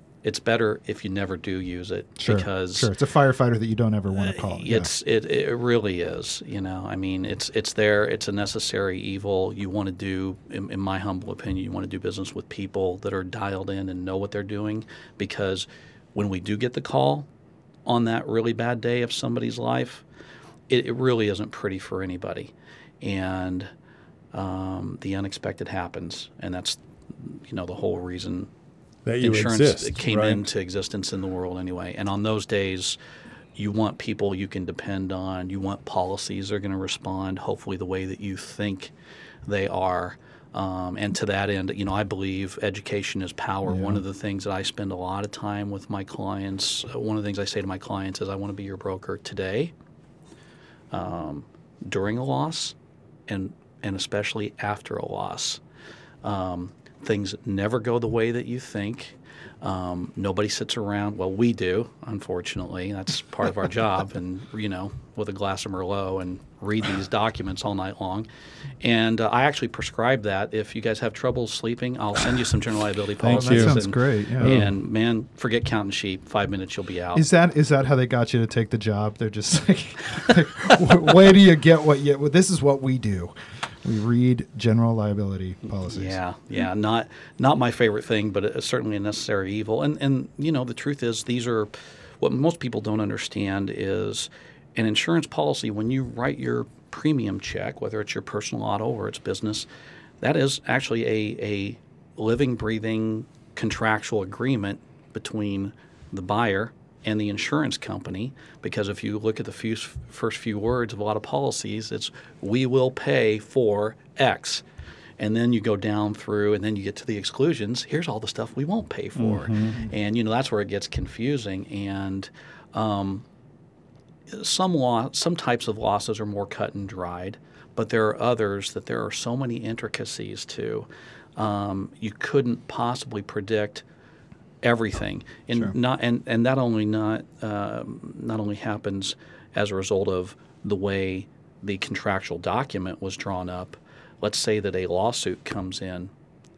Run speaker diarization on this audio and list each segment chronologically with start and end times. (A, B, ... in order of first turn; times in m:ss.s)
0:00.2-0:02.9 A
0:02.2-0:04.9 B
0:04.1-0:17.3 A
0:17.8-0:20.0 A
0:20.7-0:23.7 A
0:24.3-0:28.5 A
0:29.0-0:30.5 C
0:29.2-0:33.0 A
0:33.6-0:38.9 A
0:39.4-0:49.7 A
0:43.6-0:44.0 B
0:50.9-0:52.7 A
0:53.3-0:55.6 A
0:56.2-1:08.3 A
1:08.8-1:17.2 A
1:13.2-1:13.8 C
1:13.3-1:14.7 B
1:14.4-1:14.7 C
1:17.1-1:26.2 B
1:20.9-1:21.1 A
1:25.9-1:39.6 A
1:40.2-1:54.6 A
1:55.2-2:03.2 A
1:59.2-1:59.8 C
2:04.3-2:13.8 A
2:14.6-2:26.1 A